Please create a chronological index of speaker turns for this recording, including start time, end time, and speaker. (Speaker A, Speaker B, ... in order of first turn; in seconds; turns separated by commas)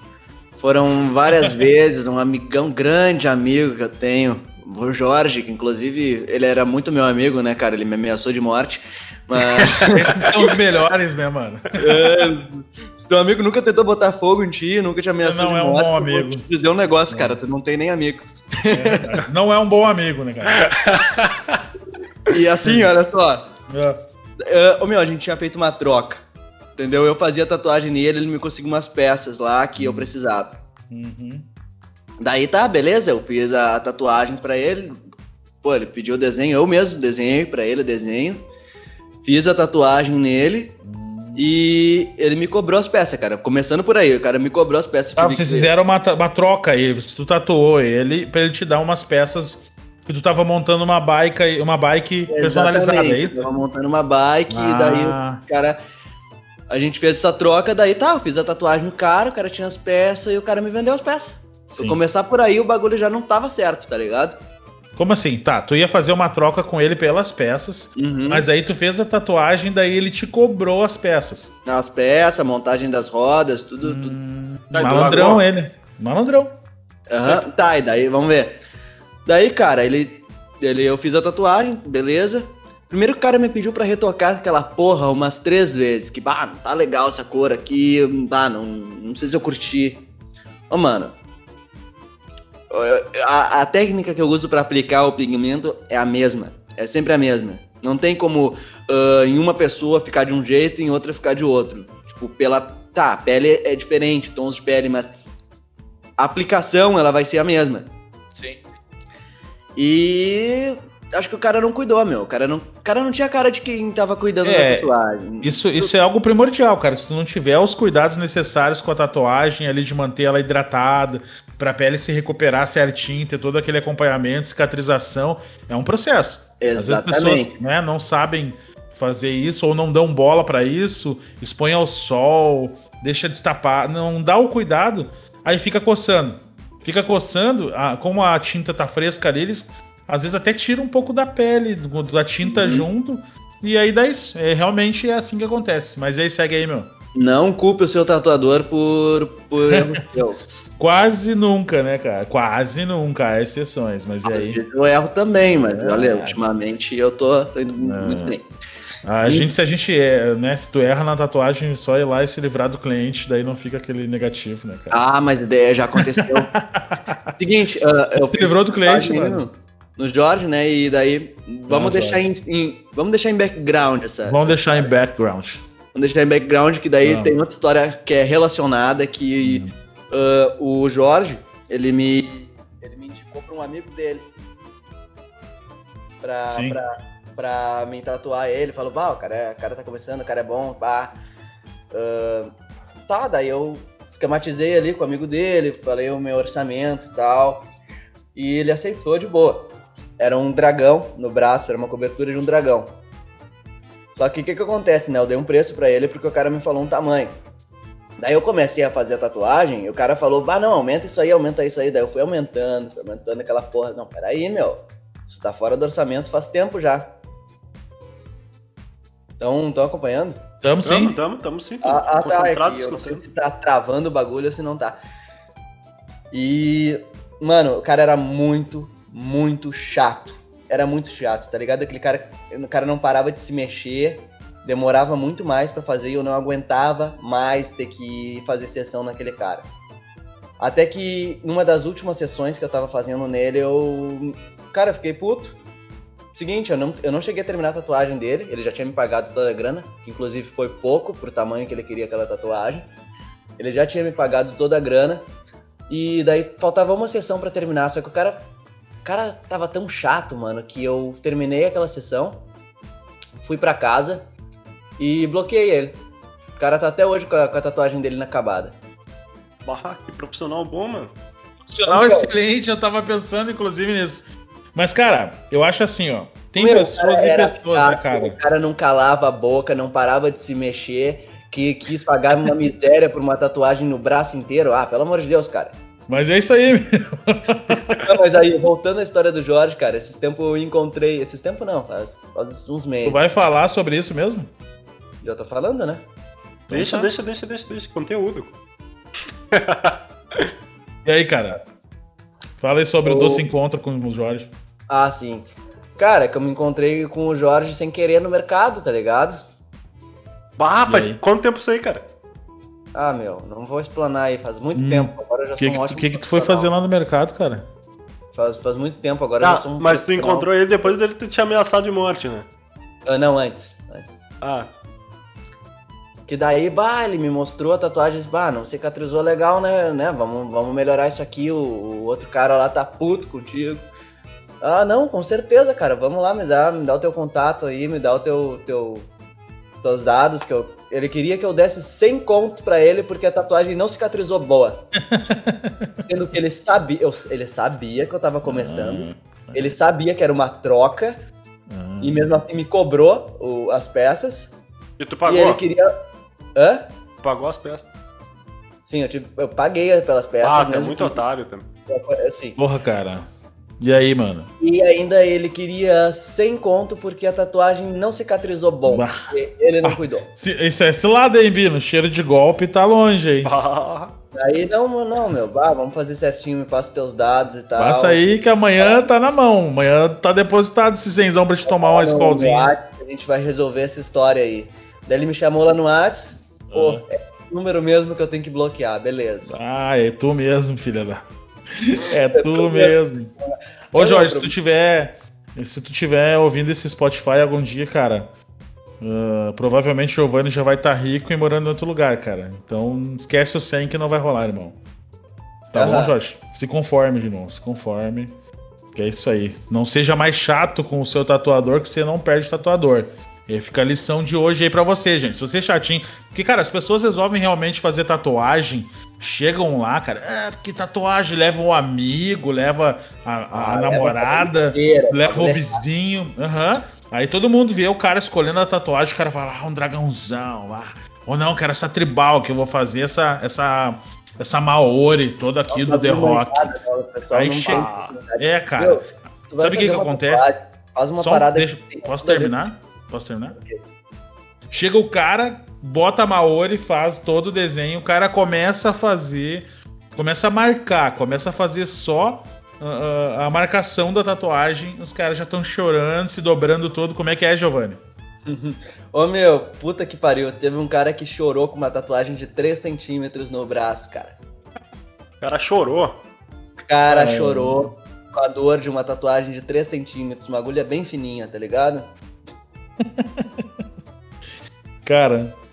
Speaker A: 0.6-10.4, Speaker B: 9.9-12.3, Speaker A: 11.8-19.2, Speaker B: 15.2-16.4, Speaker B: 17.1-17.4, Speaker B: 18.7-20.7, Speaker C: 20.5-21.6, Speaker A: 22.3-23.4, Speaker B: 23.7-24.0, Speaker A: 24.4-26.2, Speaker A: 26.8-30.5, Speaker B: 29.8-30.1, Speaker B: 30.9-31.4, Speaker A: 32.2-34.9, Speaker A: 35.6-38.4, Speaker A: 39.2-40.7, Speaker B: 40.8-41.5, Speaker A: 41.3-45.7, Speaker B: 45.2-53.5, Speaker A: 52.3-55.8, Speaker B: 54.5-55.4, Speaker A: 56.7-64.4, Speaker B: 61.7-62.0, Speaker B: 65.0-71.5, Speaker A: 68.0-68.5, Speaker A: 71.7-74.2, Speaker B: 73.8-76.5, Speaker C: 74.7-75.4, Speaker A: 77.1-78.5, Speaker A: 79.2-90.0, Speaker A: 90.7-91.1, Speaker A: 92.7-105.1, Speaker A: 106.2-108.6, Speaker A: 109.8-115.9, Speaker B: 114.4-114.9, Speaker B: 115.4-146.9, Speaker A: 126.6-127.5, Speaker A: 142.4-142.8, Speaker A: 147.2-150.7, Speaker B: 150.8-154.6, Speaker A: 154.2-158.4, Speaker B: 155.5-156.4, Speaker B: 157.8-158.3, Speaker B: 159.0-165.0, Speaker A: 164.9-166.5, Speaker B: 166.0-167.3, Speaker A: 167.3-174.9, Speaker B: 168.3-169.4, Speaker B: 171.7-172.3, Speaker B: 174.2-175.6, Speaker A: 175.9-184.3, Speaker B: 177.0-177.3, Speaker B: 179.4-179.7, Speaker A: 186.2-191.1, Speaker B: 186.5-186.8, Speaker A: 191.9-192.5, Speaker A: 193.1-197.6, Speaker A: 198.3-202.9, Speaker A: 204.1-207.3, Speaker A: 208.2-217.1, Speaker A: 219.4-220.4, Speaker B: 220.6-221.2, Speaker C: 220.8-223.2, Speaker A: 221.8-224.9, Speaker A: 226.3-239.7, Speaker A: 240.6-245.6, Speaker A: 246.3-252.8, Speaker A: 253.6-255.2, Speaker A: 255.9-258.4, Speaker A: 259.0-262.4, Speaker A: 263.4-264.2, Speaker A: 265.0-266.0, Speaker A: 266.6-268.7, Speaker C: 269.6-271.1, Speaker B: 271.7-278.4, Speaker A: 271.9-272.3, Speaker A: 276.6-285.7, Speaker B: 286.1-288.0, Speaker A: 287.7-293.2, Speaker B: 293.0-294.5, Speaker A: 295.2-296.0, Speaker B: 296.7-297.1, Speaker C: 296.7-298.5, Speaker C: 299.5-300.5, Speaker B: 301.0-301.6, Speaker B: 302.6-304.5, Speaker A: 303.0-303.4, Speaker A: 304.9-309.4, Speaker C: 310.6-312.0, Speaker B: 310.9-311.2, Speaker A: 312.9-316.7, Speaker B: 314.7-317.6, Speaker A: 318.3-320.9, Speaker C: 319.4-322.5, Speaker A: 323.1-324.2, Speaker C: 324.4-324.7, Speaker A: 326.3-333.8, Speaker A: 334.6-339.1, Speaker A: 339.8-344.8, Speaker B: 345.1-346.1, Speaker A: 346.1-351.2, Speaker B: 348.4-349.8, Speaker B: 351.7-352.3, Speaker A: 352.0-354.5, Speaker C: 355.0-355.6, Speaker A: 355.2-355.9, Speaker A: 356.6-356.8, Speaker C: 357.2-357.9, Speaker A: 358.9-361.2, Speaker C: 360.4-361.6, Speaker A: 361.9-362.6, Speaker B: 362.6-363.3, Speaker B: 363.8-364.5, Speaker A: 364.6-370.3, Speaker B: 368.9-369.2, Speaker B: 369.8-373.5, Speaker C: 373.4-374.1, Speaker A: 374.3-378.2, Speaker B: 377.8-382.7, Speaker A: 381.7-389.5, Speaker B: 386.7-387.0, Speaker B: 389.5-391.2, Speaker B: 391.8-393.3, Speaker A: 392.3-394.5, Speaker B: 393.9-398.3, Speaker B: 399.0-404.8, Speaker A: 405.7-406.1, Speaker B: 405.7-408.3, Speaker B: 408.9-436.7, Speaker A: 423.5-425.8, Speaker A: 435.7-442.5, Speaker B: 437.3-439.0, Speaker C: 437.7-438.1, Speaker B: 439.6-440.5, Speaker B: 441.1-443.6, Speaker A: 443.5-443.8, Speaker B: 444.7-458.0, Speaker A: 458.4-464.3, Speaker C: 465.4-466.2, Speaker A: 466.9-472.1, Speaker B: 467.1-467.9, Speaker B: 473.0-473.7, Speaker B: 475.0-475.5